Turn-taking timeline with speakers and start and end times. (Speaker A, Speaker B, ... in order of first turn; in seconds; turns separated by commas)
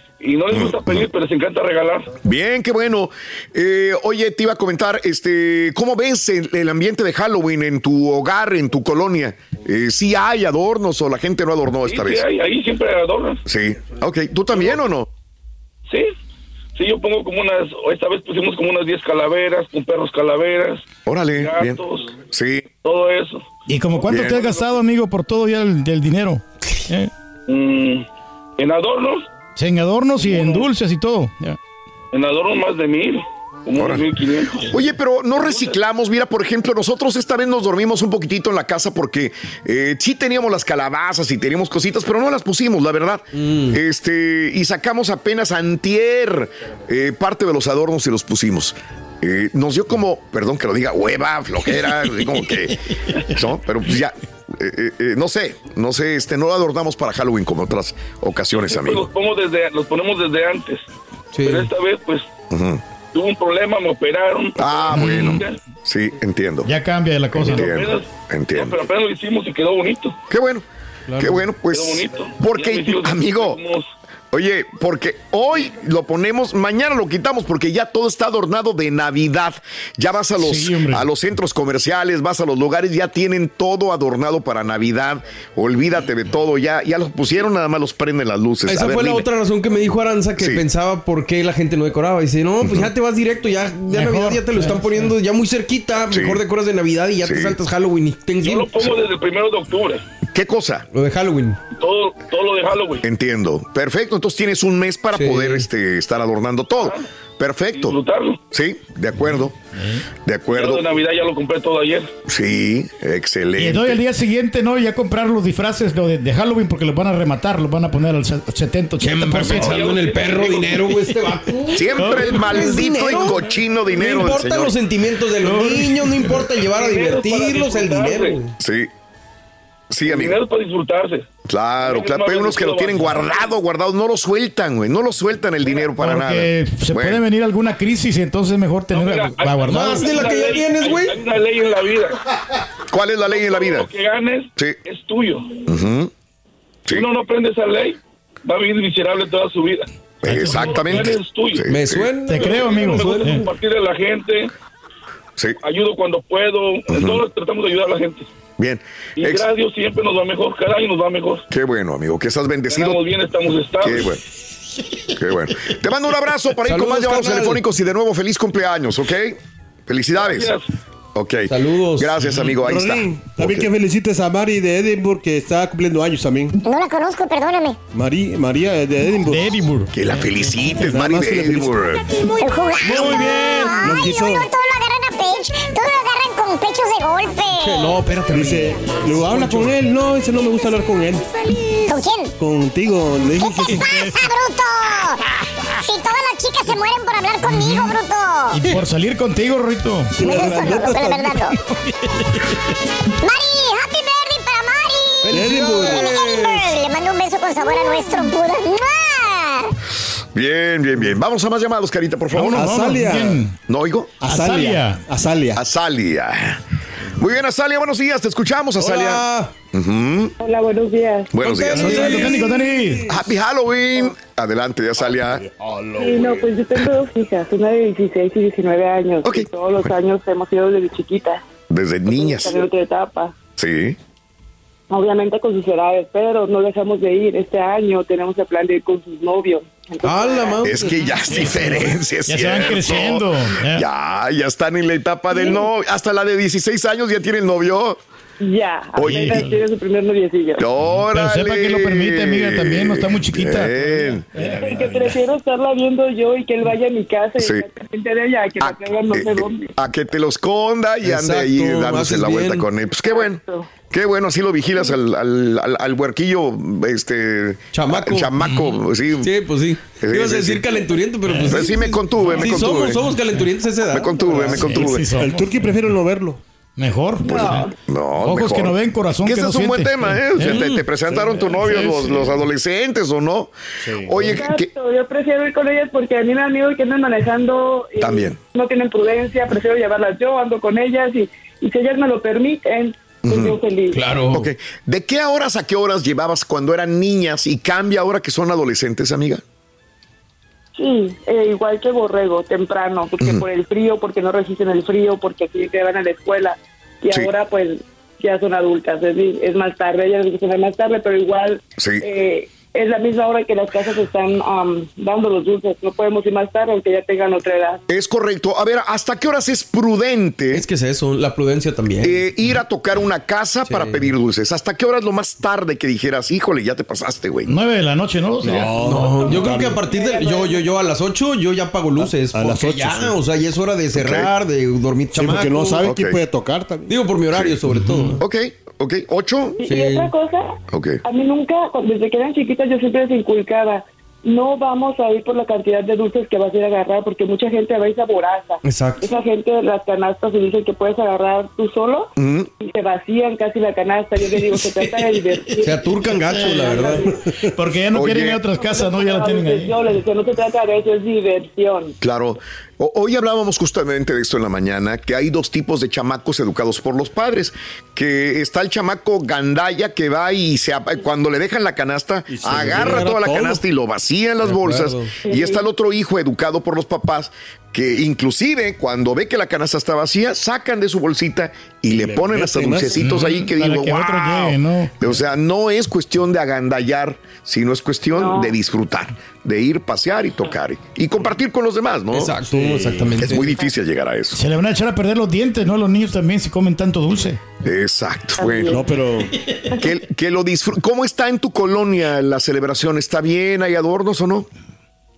Speaker A: 0.2-2.1, Speaker B: 0.5-1.1, Speaker B: 2.2-12.2, Speaker A: 11.8-13.4, Speaker B: 13.4-15.1, Speaker A: 16.8-22.1, Speaker B: 21.1-22.7, Speaker A: 22.8-24.5, Speaker C: 23.7-27.1, Speaker B: 24.1-24.6, Speaker A: 27.5-28.1, Speaker A: 28.6-29.3, Speaker C: 29.6-31.6, Speaker A: 30.2-30.7, Speaker A: 32.1-34.8, Speaker B: 33.8-34.1, Speaker B: 34.6-59.1, Speaker A: 35.4-35.8, Speaker D: 43.4-43.8, Speaker A: 58.5-60.9, Speaker D: 61.3-61.7, Speaker A: 61.5-62.3, Speaker B: 62.5-62.8, Speaker A: 63.1-65.6, Speaker B: 64.6-66.7, Speaker C: 64.9-65.4, Speaker C: 66.7-67.7, Speaker B: 67.3-68.8, Speaker A: 67.5-70.2, Speaker B: 70.3-70.7, Speaker D: 71.1-71.5, Speaker B: 71.2-73.6, Speaker A: 71.7-73.9, Speaker B: 74.3-89.3, Speaker C: 80.4-81.1, Speaker D: 88.7-98.8, Speaker B: 90.4-90.7, Speaker B: 92.6-92.9, Speaker C: 93.9-95.1, Speaker B: 96.1-96.4, Speaker B: 97.2-97.6, Speaker A: 98.4-100.0, Speaker B: 100.3-100.9, Speaker D: 100.9-101.6, Speaker A: 101.8-103.1, Speaker B: 103.0-108.0, Speaker D: 105.1-105.7, Speaker A: 106.8-107.0, Speaker A: 107.7-108.4, Speaker B: 108.5-109.6, Speaker C: 109.8-110.1, Speaker B: 110.2-110.9, Speaker A: 110.5-112.1, Speaker B: 112.3-114.0, Speaker C: 113.6-120.0, Speaker D: 119.0-128.5, Speaker A: 119.3-120.8, Speaker C: 120.8-121.2, Speaker B: 121.7-124.8, Speaker C: 121.9-122.8, Speaker C: 125.4-126.6, Speaker A: 126.6-128.4, Speaker B: 128.6-128.9, Speaker B: 129.9-130.4, Speaker A: 130.0-131.3, Speaker B: 131.4-137.2, Speaker A: 131.8-133.5, Speaker C: 136.0-140.1, Speaker A: 138.9-142.2, Speaker D: 139.6-141.2, Speaker B: 142.9-143.9, Speaker A: 143.3-145.6, Speaker B: 145.7-146.1, Speaker A: 146.9-151.7, Speaker B: 150.2-152.1, Speaker C: 150.2-151.1, Speaker D: 151.7-153.5, Speaker C: 152.3-153.5, Speaker A: 152.4-154.5, Speaker A: 155.6-158.3, Speaker B: 156.9-157.2, Speaker B: 158.6-159.5, Speaker A: 159.2-161.4, Speaker B: 161.5-163.0, Speaker A: 162.7-164.1, Speaker B: 163.8-164.2, Speaker B: 165.1-170.5, Speaker D: 166.7-167.6, Speaker A: 170.2-170.7, Speaker B: 171.2-173.7, Speaker D: 171.5-172.3, Speaker E: 172.6-176.6, Speaker F: 176.6-177.8, Speaker E: 177.9-179.6, Speaker C: 179.3-180.9, Speaker B: 179.9-182.2, Speaker E: 180.8-181.8, Speaker F: 182.2-188.0, Speaker E: 182.8-184.5, Speaker C: 182.9-183.8, Speaker D: 187.5-189.7, Speaker E: 188.3-191.3, Speaker F: 191.8-192.3, Speaker E: 192.4-194.1, Speaker F: 193.4-195.2, Speaker F: 195.8-198.6, Speaker C: 197.4-198.0, Speaker C: 198.5-200.2, Speaker E: 200.2-201.5, Speaker F: 200.2-201.5, Speaker C: 201.9-202.5, Speaker F: 203.2-209.7, Speaker D: 205.2-206.8, Speaker E: 205.3-206.1, Speaker B: 210.3-212.9, Speaker C: 212.4-213.6, Speaker E: 212.5-213.4, Speaker B: 213.7-214.2, Speaker E: 214.2-215.6, Speaker C: 214.3-215.0, Speaker B: 215.6-216.6, Speaker B: 217.2-220.3, Speaker D: 218.8-219.5, Speaker G: 220.4-221.3, Speaker B: 221.3-222.4, Speaker D: 221.4-222.5, Speaker C: 221.7-223.1, Speaker E: 222.2-223.1, Speaker B: 223.1-225.5, Speaker E: 225.5-226.5, Speaker G: 225.9-231.4, Speaker B: 229.2-229.9, Speaker B: 231.7-232.6, Speaker G: 232.1-233.4, Speaker B: 233.6-234.0, Speaker G: 234.9-240.8, Speaker D: 240.0-241.9, Speaker B: 240.6-248.0, Speaker C: 241.3-243.8, Speaker G: 245.3-245.7, Speaker G: 248.4-250.7, Speaker B: 249.0-249.5, Speaker C: 249.0-249.6, Speaker B: 250.6-254.2, Speaker C: 250.9-255.1, Speaker E: 254.4-254.8, Speaker G: 254.6-259.7, Speaker B: 257.4-257.6, Speaker B: 258.6-269.3, Speaker D: 261.0-262.7, Speaker G: 263.0-263.7, Speaker D: 267.7-268.3, Speaker D: 269.2-274.9, Speaker B: 270.0-270.7, Speaker C: 271.3-272.6, Speaker B: 271.4-273.1, Speaker B: 273.9-275.2, Speaker C: 274.5-275.8, Speaker E: 274.6-276.4, Speaker C: 276.8-277.7, Speaker B: 277.2-283.5, Speaker G: 277.3-277.7, Speaker C: 278.2-282.4, Speaker D: 280.4-280.8, Speaker E: 283.8-284.4, Speaker B: 284.1-284.7, Speaker G: 284.2-294.0, Speaker B: 288.0-288.4, Speaker B: 293.2-293.6, Speaker D: 293.9-294.5, Speaker B: 294.3-299.4, Speaker G: 300.8-317.8, Speaker B: 303.2-303.4, Speaker B: 311.8-312.1, Speaker B: 317.9-320.6, Speaker D: 320.5-322.3, Speaker B: 322.0-327.5, Speaker D: 323.6-324.1, Speaker C: 327.5-329.3, Speaker E: 328.4-329.9, Speaker D: 328.8-335.9, Speaker G: 329.1-330.7, Speaker E: 332.0-333.2, Speaker B: 333.9-334.3, Speaker E: 335.1-337.0, Speaker B: 335.8-336.2, Speaker D: 336.9-338.2, Speaker B: 338.2-339.6, Speaker G: 339.6-357.2, Speaker D: 339.6-340.1, Speaker B: 340.7-341.0, Speaker D: 348.6-349.1, Speaker B: 352.2-352.5, Speaker C: 354.6-355.6, Speaker D: 355.6-357.1, Speaker C: 356.2-356.7, Speaker E: 356.7-357.5, Speaker C: 357.5-359.8, Speaker B: 357.9-358.4, Speaker G: 358.6-361.9, Speaker B: 362.0-392.4, Speaker E: 372.3-373.6, Speaker D: 372.6-373.5, Speaker D: 374.4-375.2, Speaker G: 375.2-375.7, Speaker E: 381.9-383.1, Speaker C: 383.0-385.0, Speaker G: 388.1-388.6, Speaker D: 392.1-393.6, Speaker E: 392.4-393.4, Speaker B: 393.2-394.4, Speaker C: 394.3-397.5, Speaker B: 397.6-398.9, Speaker G: 398.4-398.8, Speaker E: 398.6-399.4, Speaker C: 399.4-399.7, Speaker B: 399.7-404.5